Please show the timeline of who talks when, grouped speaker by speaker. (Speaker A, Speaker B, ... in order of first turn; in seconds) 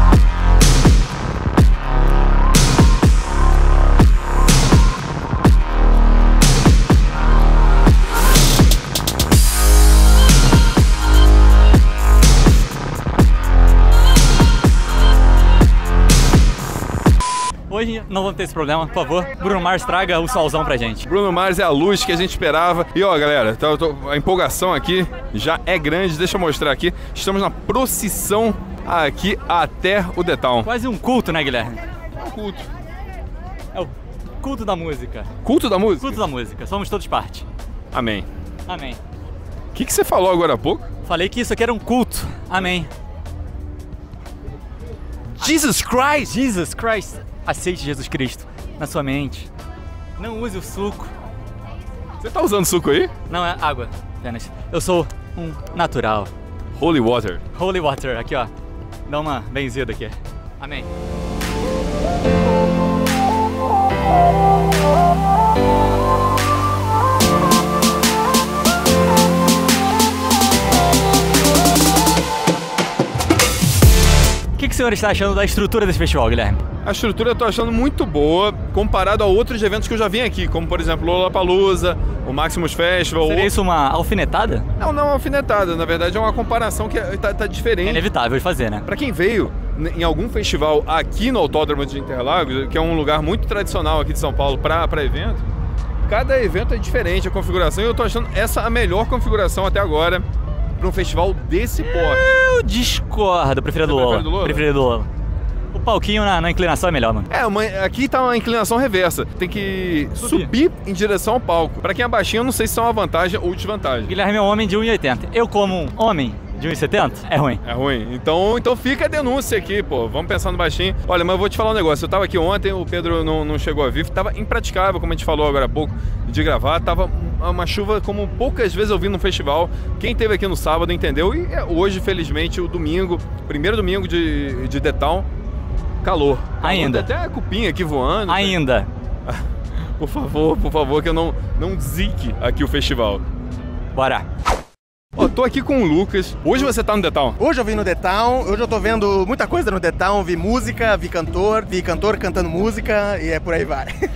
Speaker A: 17.7-21.1, 30.6-31.8, 33.7-35.3, 36.0-37.4, 38.7-39.0, 41.0-42.9, 45.4-49.5, 50.2-51.1, 53.3-56.3, 57.5-58.5, 59.1-60.9, 74.5-76.6, 83.2-84.7, 87.8-88.8, 101.8-105.1, 105.7-107.3, 110.2-110.5, 114.0-117.6, 136.6-137.1, 138.3-138.9, 143.9-144.3
Speaker B: 21.0-30.7, 32.1-32.7, 35.4-36.2, 37.9-38.3, 39.7-40.9, 45.4-46.3, 52.2-53.1, 56.8-57.4, 76.8-83.5, 84.8-88.0, 88.8-95.4, 96.0-100.2, 100.8-102.4, 103.8-104.7, 107.3-114.1, 117.6-135.3, 136.0-138.6, 139.3-143.2, 145.2-147.4
Speaker C: 147.4-153.9